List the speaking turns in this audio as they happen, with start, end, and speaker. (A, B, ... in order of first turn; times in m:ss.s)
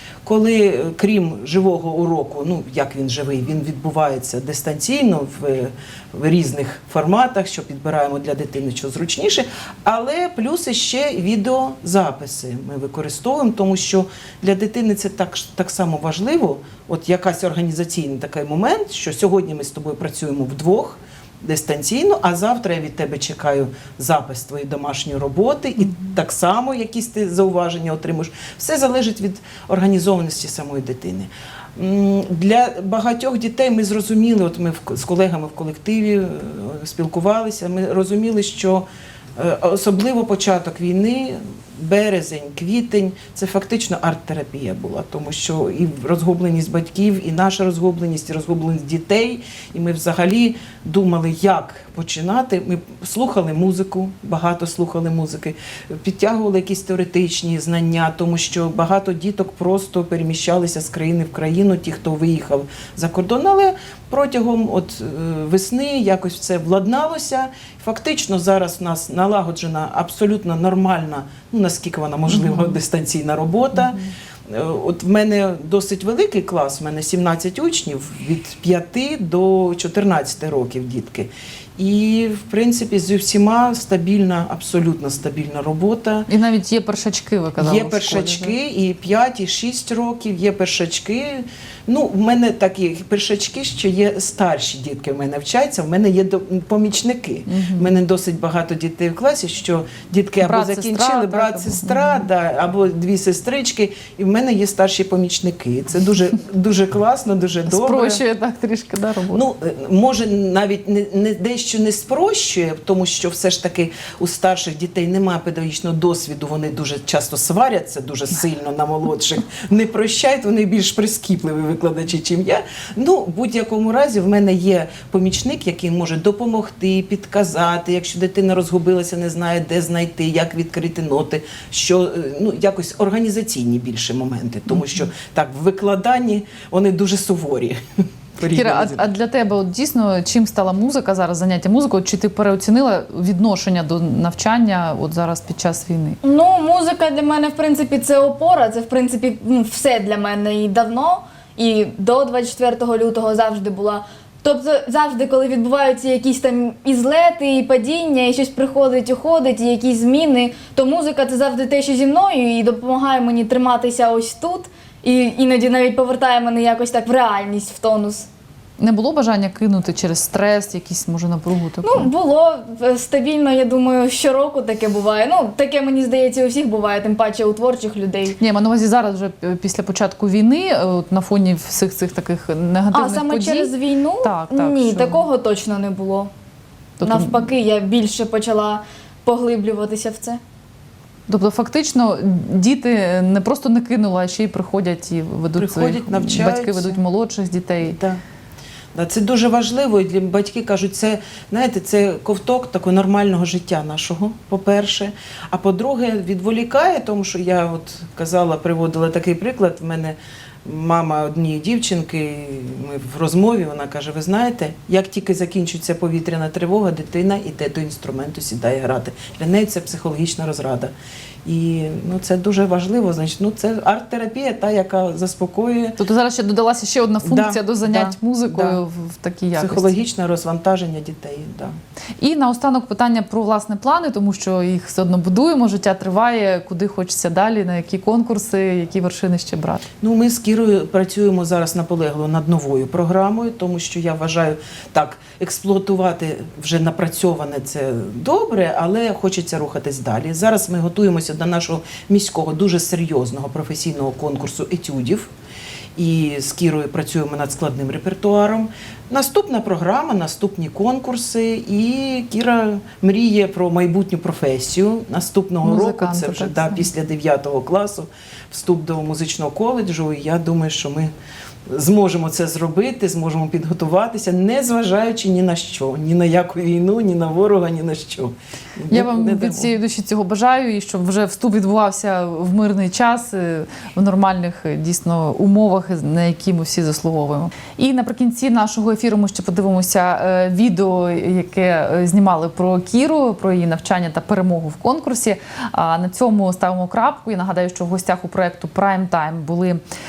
0:00.2-0:38.8 A
0:39.4-1:26.3 A
1:12.3-1:12.8 B
1:26.3-1:28.5 B
1:27.6-1:48.2 A
1:37.5-1:37.9 B
1:40.4-1:42.2 B
1:47.7-1:49.4 B
1:49.3-2:17.8 A
2:14.7-2:15.1 B
2:18.4-2:19.1 A
2:18.5-2:26.2 B
2:26.2-2:48.3 C
2:48.8-2:52.1 B
2:51.8-2:58.4 C
2:58.4-3:03.7 B
3:02.9-3:06.3 C
3:04.2-3:05.3 B
3:07.0-3:07.4 B
3:07.0-3:10.4 C
3:11.3-3:18.0 B
3:15.6-3:17.0 A
3:17.8-3:18.2 A
3:18.9-3:40.9 A
3:41.4-3:46.0 A
3:46.0-3:50.0 B
3:47.2-3:48.8 A
3:49.5-3:51.7 A
3:52.2-3:59.8 B
4:00.0-4:15.3 A
4:16.0-4:31.1 A
4:25.6-4:26.8 B
4:31.7-4:39.7 A
4:38.9-4:59.8 B